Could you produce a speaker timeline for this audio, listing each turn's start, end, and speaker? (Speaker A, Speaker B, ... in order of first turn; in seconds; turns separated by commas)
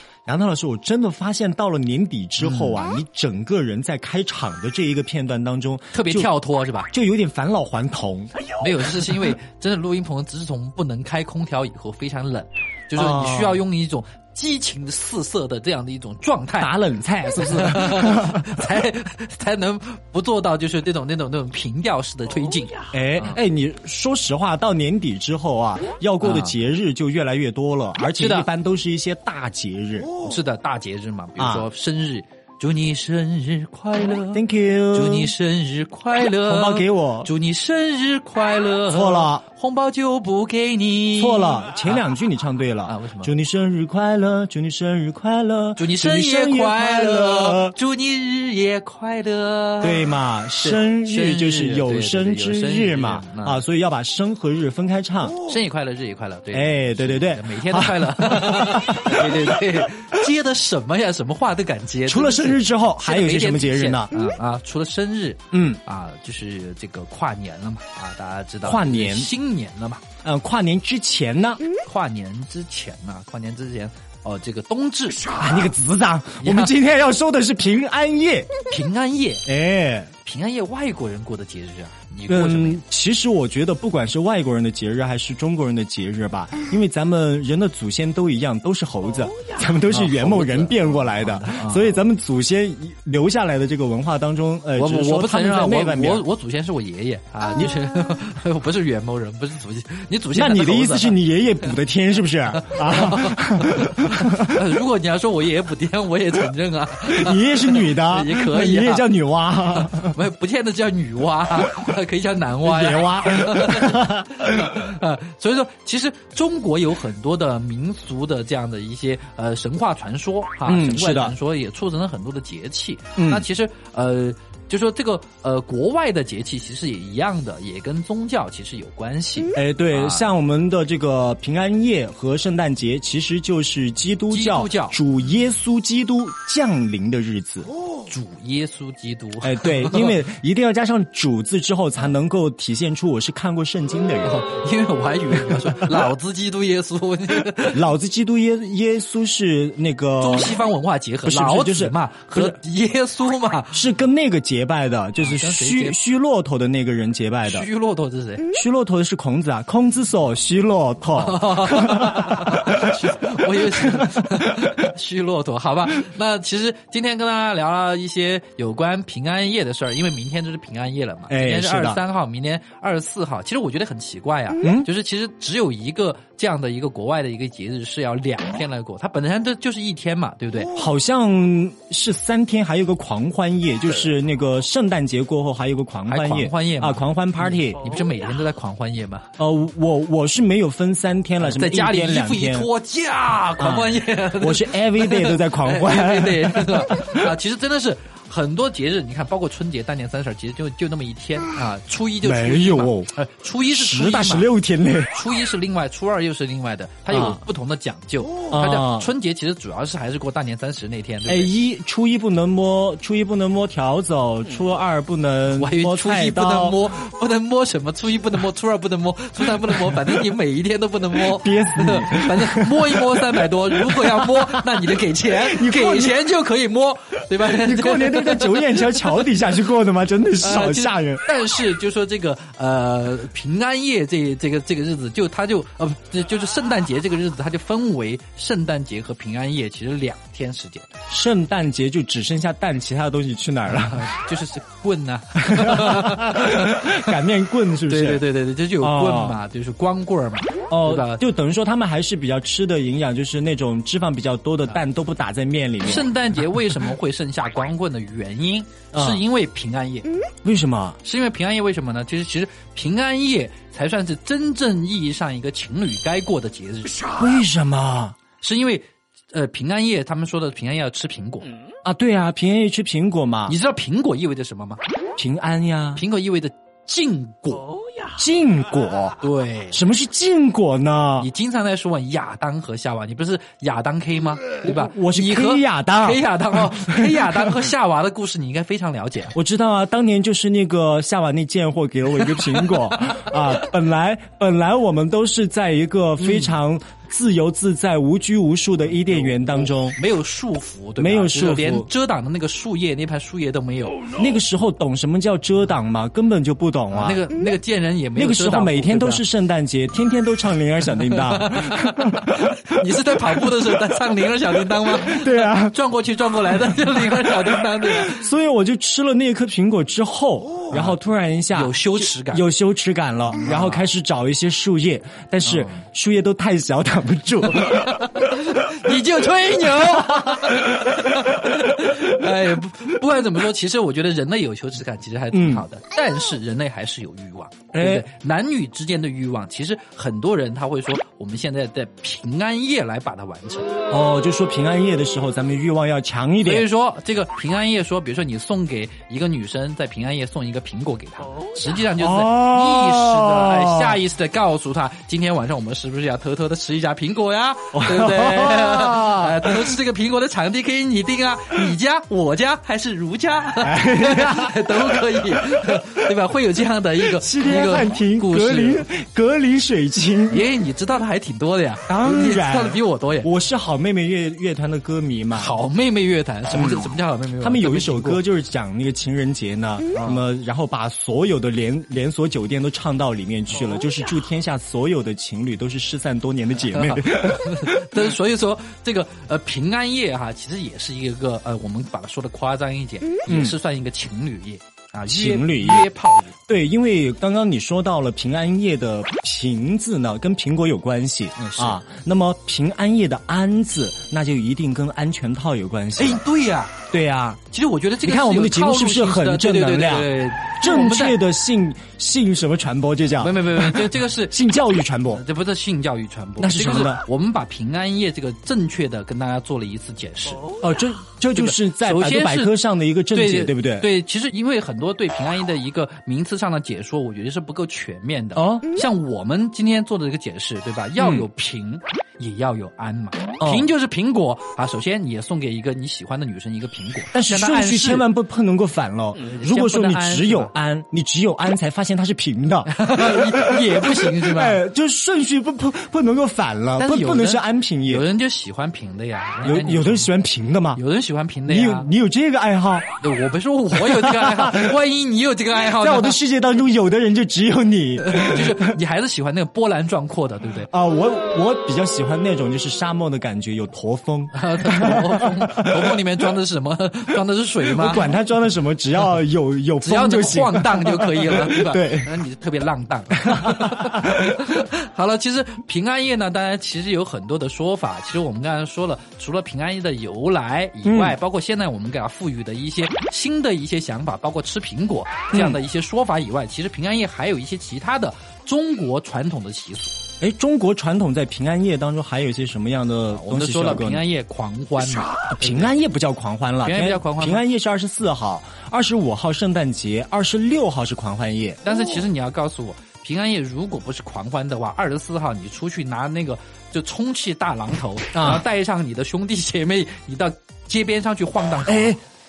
Speaker A: 0.2-6.3, Speaker B: 2.4-2.8, Speaker B: 5.9-6.9, Speaker A: 6.9-8.4, Speaker B: 8.6-16.7, Speaker A: 12.9-13.6, Speaker A: 16.6-18.7, Speaker B: 17.4-23.4, Speaker A: 22.9-30.1, Speaker B: 26.2-26.6, Speaker B: 28.2-28.5, Speaker B: 30.2-42.0, Speaker A: 31.4-31.7, Speaker A: 34.3-35.3, Speaker A: 36.4-37.3, Speaker A: 38.9-39.4, Speaker A: 41.1-47.7, Speaker B: 42.9-43.3, Speaker B: 45.8-53.6, Speaker A: 49.8-55.4, Speaker B: 55.4-70.0, Speaker A: 56.5-59.8, Speaker A: 62.1-64.1, Speaker A: 65.5-65.8, Speaker A: 68.6-69.3, Speaker A: 70.2-71.6, Speaker B: 71.8-75.6, Speaker A: 75.3-78.5, Speaker B: 76.4-76.7, Speaker B: 78.7-79.4, Speaker A: 79.5-80.1, Speaker B: 80.2-82.8, Speaker A: 82.3-96.2, Speaker B: 89.8-92.0, Speaker B: 94.8-101.2, Speaker A: 100.3-104.7, Speaker B: 102.6-109.0, Speaker A: 107.0-110.2, Speaker B: 109.7-130.3, Speaker A: 112.6-114.7, Speaker A: 120.6-121.3, Speaker A: 123.2-123.4, Speaker A: 129.5-137.7, Speaker B: 134.3-135.0, Speaker B: 138.1-140.2, Speaker A: 139.4-144.4, Speaker B: 144.2-147.8, Speaker A: 145.5-146.1, Speaker A: 147.7-150.6, Speaker B: 150.2-153.8, Speaker A: 151.2-152.6, Speaker A: 153.7-157.7, Speaker B: 155.2-155.9, Speaker B: 157.4-158.5, Speaker A: 158.5-164.7, Speaker B: 161.2-180.7, Speaker A: 171.3-172.0, Speaker A: 174.6-174.9, Speaker A: 180.7-188.0, Speaker B: 186.1-189.3, Speaker A: 189.4-192.7, Speaker B: 191.4-204.5, Speaker A: 193.6-197.3, Speaker A: 202.2-203.1, Speaker A: 203.7-205.1, Speaker B: 205.1-211.5, Speaker A: 207.1-207.4, Speaker A: 208.5-209.1, Speaker A: 211.3-216.8, Speaker B: 215.5-229.2, Speaker A: 221.2-226.2, Speaker A: 227.4-231.2, Speaker B: 230.4-240.9, Speaker A: 241.1-244.1, Speaker B: 243.7-246.9, Speaker A: 245.3-248.2, Speaker B: 247.9-251.2, Speaker A: 248.8-249.4, Speaker A: 250.7-256.8, Speaker B: 255.8-260.1, Speaker A: 258.9-259.2, Speaker A: 260.4-261.0, Speaker B: 261.0-267.1, Speaker A: 267.1-268.2, Speaker B: 268.4-271.5, Speaker A: 271.8-273.6, Speaker B: 273.5-274.8, Speaker A: 275.2-276.0, Speaker B: 275.9-277.7, Speaker A: 278.1-279.2, Speaker B: 279.2-279.8, Speaker A: 279.7-281.3, Speaker B: 281.2-289.3, Speaker A: 284.6-287.6, Speaker A: 289.3-300.0, Speaker B: 296.2-296.5, Speaker B: 298.8-304.1, Speaker A: 301.0-301.9, Speaker A: 304.1-307.2, Speaker B: 306.9-309.2, Speaker A: 308.1-312.6, Speaker B: 311.0-318.2, Speaker A: 313.2-313.5, Speaker A: 314.9-315.7, Speaker A: 316.6-327.9, Speaker B: 321.5-322.4, Speaker B: 323.4-323.9, Speaker B: 325.4-325.8, Speaker B: 327.5-343.7, Speaker A: 335.3-335.6, Speaker A: 337.7-338.1, Speaker A: 343.9-346.7, Speaker B: 346.4-368.9, Speaker A: 351.9-354.0, Speaker A: 357.7-359.8, Speaker A: 363.6-365.8, Speaker A: 367.1-370.4, Speaker B: 370.3-373.3, Speaker A: 371.9-375.5, Speaker B: 375.3-378.2, Speaker A: 376.5-388.1, Speaker B: 379.9-380.2, Speaker B: 386.7-396.3, Speaker A: 393.3-393.5, Speaker A: 395.1-395.9, Speaker A: 396.5-406.2, Speaker B: 401.5-401.8, Speaker B: 406.0-406.7, Speaker A: 406.9-407.4, Speaker B: 407.5-411.2, Speaker A: 408.0-415.2, Speaker B: 413.2-414.4, Speaker B: 415.0-420.6, Speaker A: 416.4-417.0, Speaker A: 420.6-423.9, Speaker B: 421.3-422.6, Speaker B: 423.1-438.1, Speaker A: 428.3-428.7, Speaker A: 431.0-431.2, Speaker A: 433.4-433.7, Speaker A: 437.1-448.0, Speaker B: 439.2-440.5, Speaker B: 442.7-444.6, Speaker B: 446.8-450.1, Speaker A: 449.4-450.8, Speaker B: 450.7-451.9, Speaker A: 451.5-452.9, Speaker B: 453.0-456.2, Speaker A: 453.7-454.8, Speaker A: 455.6-458.8, Speaker B: 458.0-460.7, Speaker A: 460.7-466.0, Speaker B: 464.3-468.1, Speaker A: 467.7-472.1, Speaker B: 469.8-489.9, Speaker A: 473.2-474.3, Speaker A: 480.8-481.2, Speaker A: 485.3-485.6, Speaker A: 490.2-494.0, Speaker B: 493.1-495.7, Speaker A: 495.3-501.6, Speaker B: 496.6-497.4, Speaker B: 501.6-512.0, Speaker A: 508.1-508.4, Speaker A: 511.6-512.0